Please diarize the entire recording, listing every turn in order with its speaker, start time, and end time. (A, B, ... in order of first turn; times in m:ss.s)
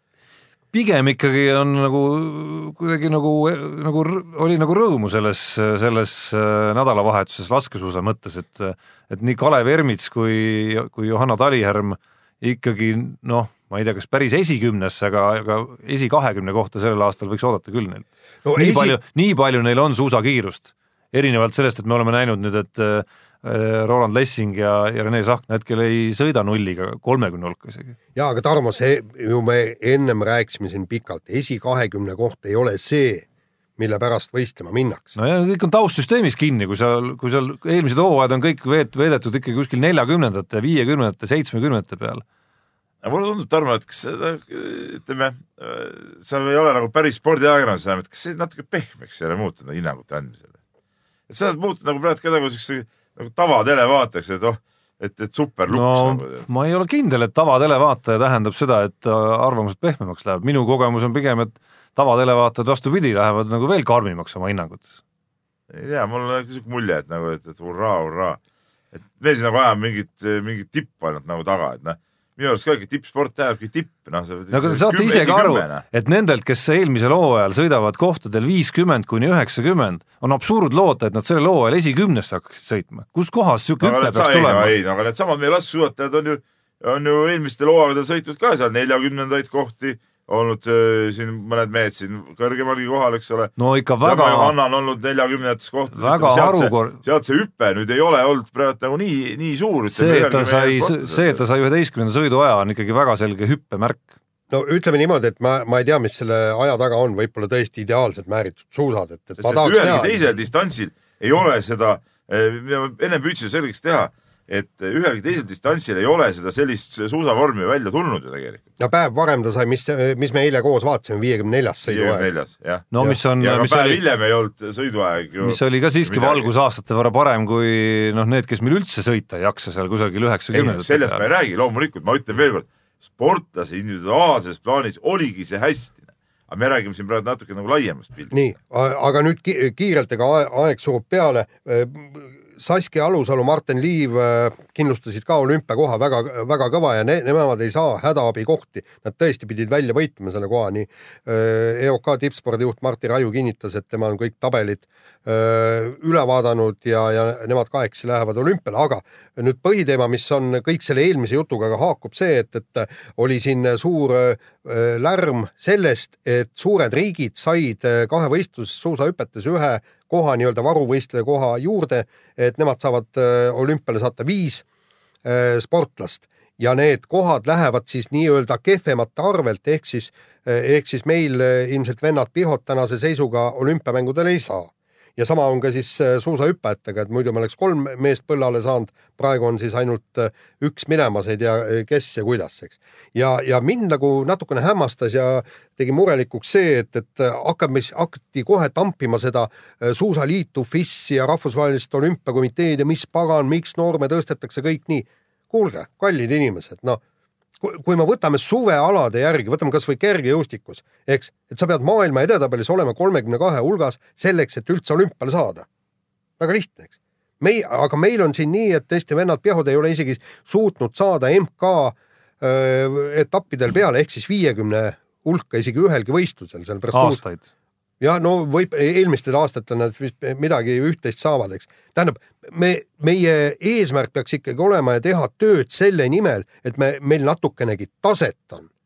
0:00.7-0:28.0 A
0:18.4-0:19.0 B
0:28.1-0:33.3 B
0:33.8-0:35.2 B
0:35.2-0:42.2 A
0:43.0-0:50.5 C
0:51.3-0:56.4 C
0:55.7-1:05.0 A
1:05.7-1:08.4 C
1:08.9-1:15.8 C
1:14.5-1:24.7 A
1:23.8-1:41.4 C
1:33.6-1:34.5 A
1:35.9-1:37.0 A
1:39.9-1:44.1 A
1:44.5-1:50.2 B
1:49.4-1:58.6 C
1:58.8-2:02.3 B
2:01.9-2:06.5 C
2:02.9-2:04.0 A
2:05.4-2:11.2 A
2:10.5-2:18.3 C
2:18.3-2:54.6 B
2:55.2-3:27.0 B
3:27.6-3:35.6 B
3:36.4-3:47.2 B
3:46.9-3:47.4 A
3:48.0-3:58.7 B